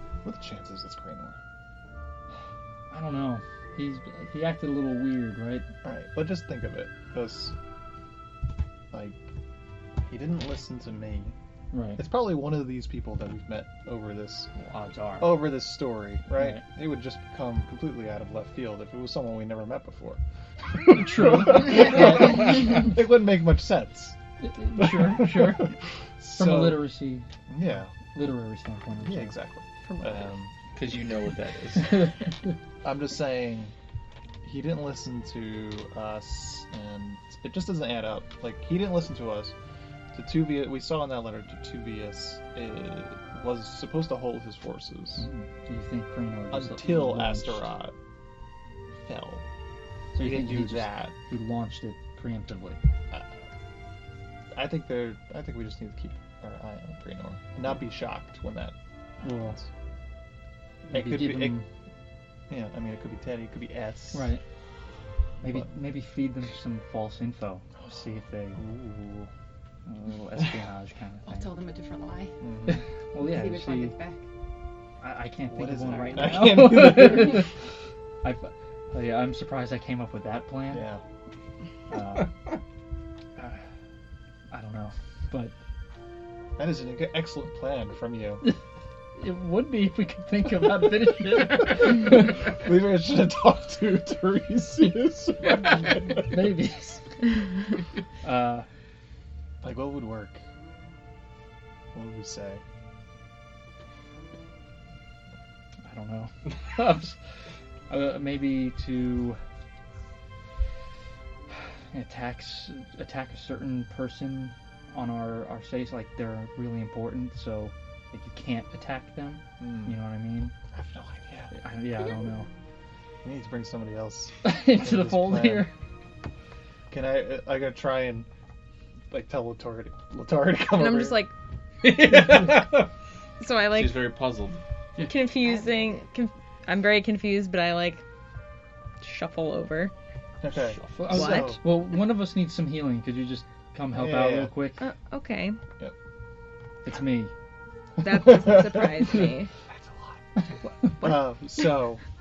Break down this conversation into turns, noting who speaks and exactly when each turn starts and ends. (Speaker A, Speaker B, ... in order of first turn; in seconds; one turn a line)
Speaker A: 0.2-1.4
Speaker B: 2.9-5.7
Speaker A: 5.8-7.5
Speaker A: 8.9-9.2
Speaker A: 10.0-11.3
Speaker B: 11.7-12.0
Speaker A: 12.0-14.5
Speaker B: 14.6-15.4
Speaker A: 15.2-20.2
Speaker B: 16.3-16.6
Speaker A: 20.8-24.2
Speaker B: 20.9-22.4
Speaker B: 24.4-25.8
Speaker A: 24.8-26.9
Speaker B: 26.3-27.2
Speaker A: 27.5-27.9
Speaker B: 28.1-29.4
Speaker A: 29.0-30.5
Speaker C: 29.8-30.3
Speaker D: 30.7-32.1
Speaker B: 31.8-32.2
Speaker A: 32.8-33.7
Speaker A: 34.4-39.5
Speaker A: 40.1-45.2
Speaker B: 45.2-47.6
Speaker A: 46.5-47.9
Speaker A: 49.0-49.4
Speaker B: 50.1-52.8
Speaker A: 50.2-51.1
Speaker A: 54.5-59.7
Speaker B: 59.2-59.6
Speaker B: 60.9-61.6
Speaker A: 60.9-61.6
Speaker A: 62.5-64.3
Speaker B: 64.1-64.4
Speaker B: 65.4-68.6
Speaker A: 65.4-65.7
Speaker A: 67.8-68.0
Speaker A: 68.5-69.3
Speaker B: 69.9-71.5
Speaker E: 71.2-72.3
Speaker A: 72.4-72.8
Speaker B: 72.7-73.9
Speaker E: 73.2-74.2
Speaker B: 75.0-77.5
Speaker A: 75.5-77.5
Speaker B: 78.2-80.9
Speaker A: 80.7-81.0
Speaker B: 81.9-82.3
Speaker B: 83.4-83.6
Speaker B: 84.5-85.5
Speaker A: 86.6-88.4
Speaker B: 89.2-92.4
Speaker A: 92.5-96.3
Speaker B: 96.2-97.0
Speaker B: 98.2-98.7
Speaker A: 99.6-100.4
Speaker A: 101.9-102.6
Speaker B: 105.8-107.2
Speaker B: 107.9-109.4
Speaker B: 111.9-120.5
Speaker A: 119.6-120.0
Speaker A: 120.7-121.5
Speaker B: 121.5-122.5
Speaker A: 123.2-125.7
Speaker B: 124.4-125.7
Speaker A: 126.9-128.3
Speaker A: 129.1-131.2
Speaker C: 130.7-131.3
Speaker D: 131.8-132.9
Speaker C: 133.4-134.1
Speaker D: 133.7-134.6
Speaker C: 135.0-138.0
Speaker E: 135.3-136.1
Speaker C: 139.0-139.9
Speaker A: 140.4-141.6
Speaker D: 140.7-141.0
Speaker B: 140.9-144.8
Speaker C: 141.1-141.6
Speaker A: 143.9-144.5
Speaker C: 144.8-145.6
Speaker B: 146.8-147.3
Speaker C: 148.0-149.5
Speaker A: 148.0-149.2
Speaker A: 149.8-150.2
Speaker A: 150.9-152.0